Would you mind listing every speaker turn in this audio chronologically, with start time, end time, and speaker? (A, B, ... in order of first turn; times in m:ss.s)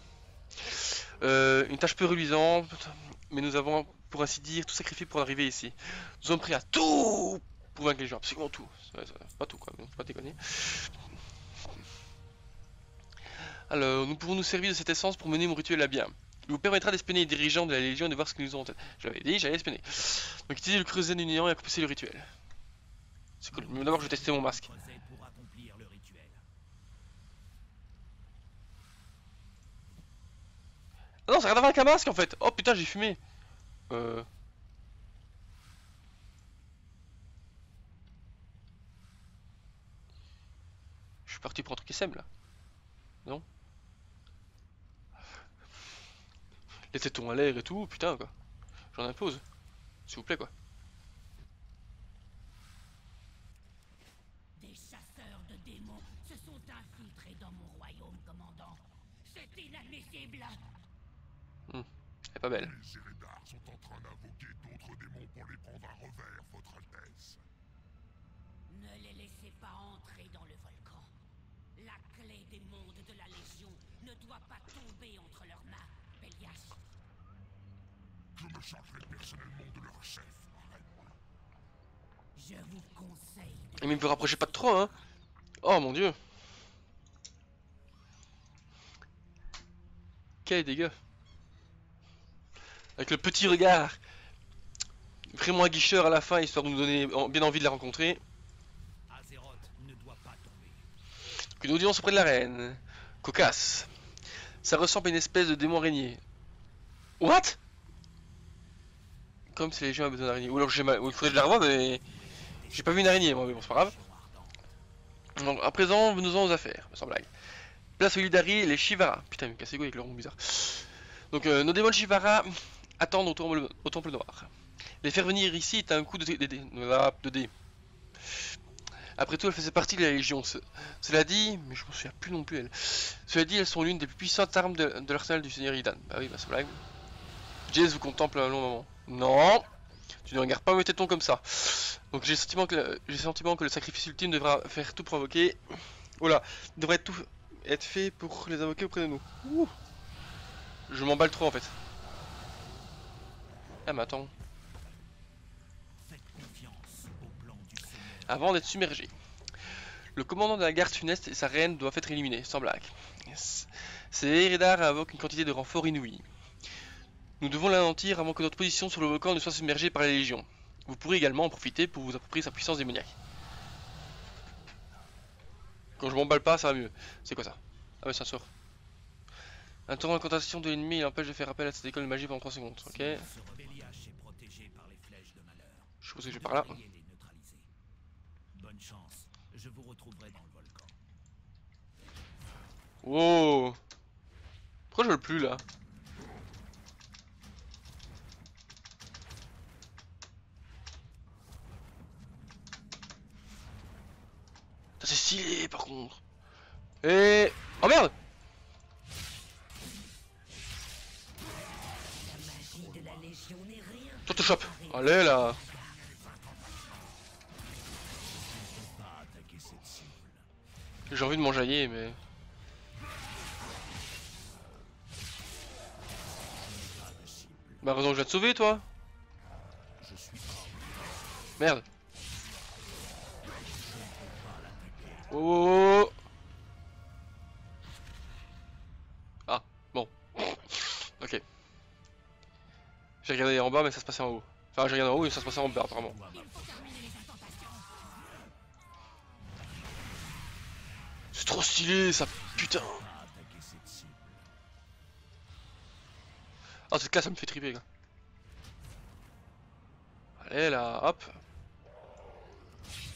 0:00.6-0:10.9 A
0:13.7-0:22.3 A
0:23.4-0:24.7 A
0:23.5-0:26.4 B
0:31.3-0:33.2 A
0:33.9-0:34.3 A
0:41.3-0:42.3 A
0:46.9-0:48.3 A
0:48.9-0:49.4 A
0:50.1-0:50.5 A
1:01.7-1:02.8 A
1:02.8-1:07.4 C
1:08.7-1:11.0 D
1:11.8-1:13.4 D
1:14.9-1:15.2 D
1:16.2-1:16.5 D
1:18.4-1:21.1 C
1:23.8-1:24.9 A
1:25.6-1:26.2 A
1:30.4-1:31.0 A
1:33.0-1:34.0 A
1:35.3-1:38.2 A
1:39.1-1:40.9 B
1:41.6-1:43.9 A
1:44.6-1:46.2 A
1:47.2-1:47.6 A
1:49.5-1:52.0 A
1:52.2-1:54.7 B
1:52.7-1:54.0 A
1:55.4-1:57.3 A
1:58.0-2:04.5 A
2:05.0-2:07.5 A
2:09.2-2:16.8 A
2:17.7-2:19.7 A
2:20.2-2:29.7 A
2:30.9-2:31.7 A
2:33.9-2:34.3 A
2:36.0-2:38.8 B
2:38.3-2:39.1 A
2:40.2-2:46.2 A
2:47.4-2:53.2 A
2:56.0-2:58.5 A
2:59.9-3:03.3 A
3:02.8-3:07.7 B
3:06.0-3:06.8 A
3:08.5-3:11.0 B
3:13.0-3:13.8 A
3:14.9-3:15.6 A
3:25.0-3:26.2 A
3:27.0-3:28.1 A
3:32.2-3:33.6 B
3:32.5-3:35.3 D
3:34.3-3:35.6 A
3:35.4-3:35.9 B
3:35.6-3:37.2 C
3:38.2-3:40.5 B
3:41.1-3:42.2 A
3:46.5-3:47.8 B
3:47.8-3:48.9 A
3:50.0-3:51.5 B
3:51.6-3:51.8 A
3:53.5-3:55.4 B
3:55.3-3:56.1 A
3:59.5-4:01.4 A
4:03.2-4:06.2 A
4:05.4-4:08.4 B
4:11.3-4:13.0 A
4:12.3-4:14.5 B
4:16.9-4:17.8 A
4:20.4-4:21.4 A